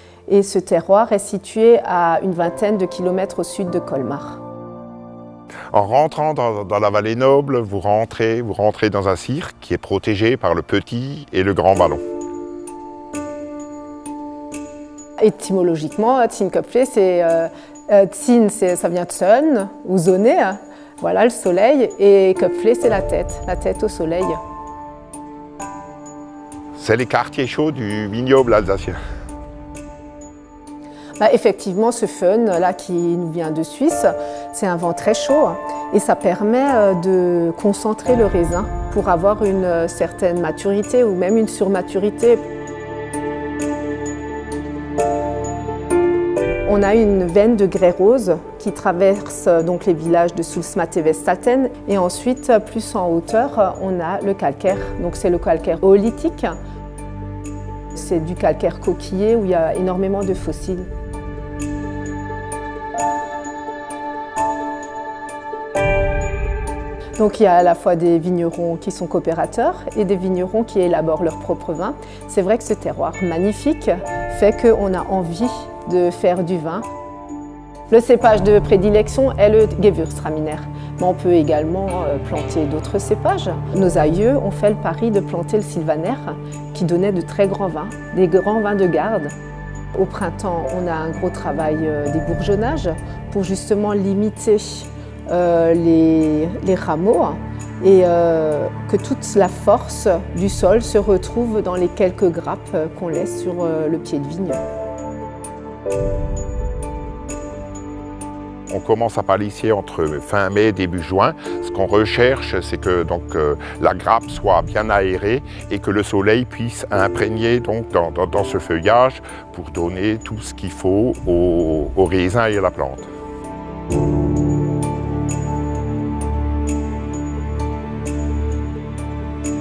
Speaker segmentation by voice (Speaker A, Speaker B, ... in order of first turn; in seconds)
Speaker A: 0.3-4.4, 15.2-24.4, 31.2-42.4, 46.7-56.6, 57.9-60.9, 67.2-76.9, 77.9-89.3, 89.9-104.6
Speaker B: 5.7-12.0, 26.8-29.0, 108.7-123.1